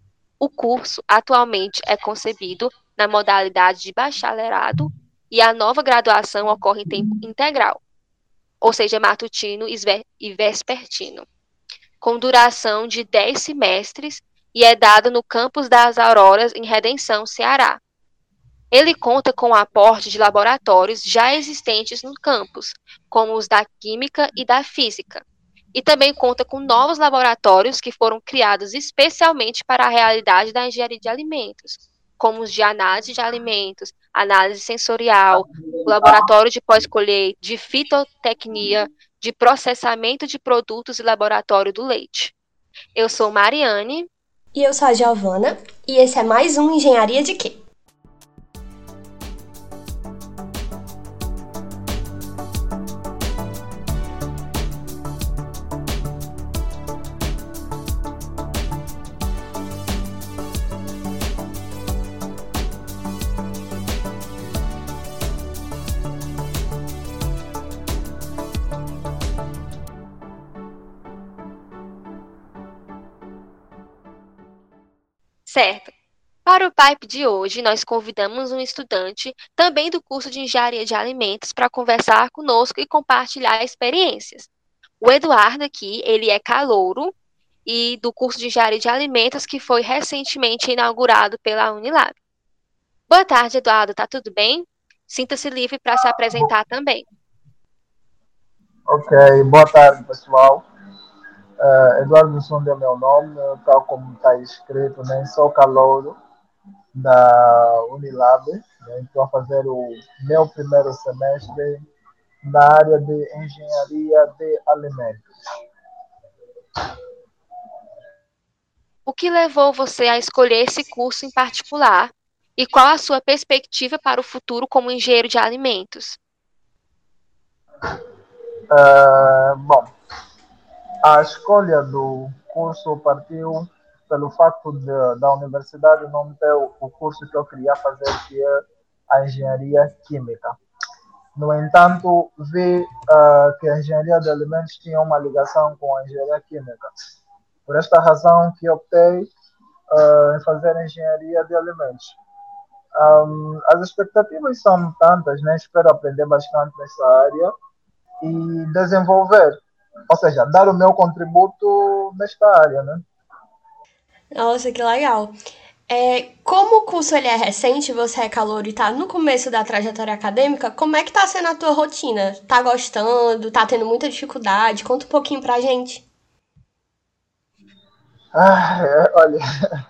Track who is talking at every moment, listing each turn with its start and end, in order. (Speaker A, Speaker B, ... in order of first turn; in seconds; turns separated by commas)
Speaker A: 0.4-7.8, Speaker A: 8.6-11.2, Speaker A: 12.0-17.8, Speaker A: 18.7-42.3, Speaker B: 35.3-36.1, Speaker A: 42.9-44.1, Speaker C: 44.5-47.6, Speaker A: 75.5-75.9, Speaker A: 76.5-84.5, Speaker A: 85.0-87.1, Speaker A: 87.7-92.2, Speaker A: 93.1-97.0, Speaker B: 98.9-100.6, Speaker B: 101.6-106.1, Speaker B: 106.9-111.8, Speaker B: 112.4-115.3, Speaker A: 119.0-126.2, Speaker B: 128.7-129.9, Speaker B: 131.0-140.6, Speaker B: 141.3-146.9, Speaker B: 147.7-149.3, Speaker B: 149.9-152.2, Speaker B: 153.0-157.5, Speaker B: 158.2-163.0, Speaker C: 164.3-165.3, Speaker C: 165.9-176.0, Speaker B: 178.3-179.4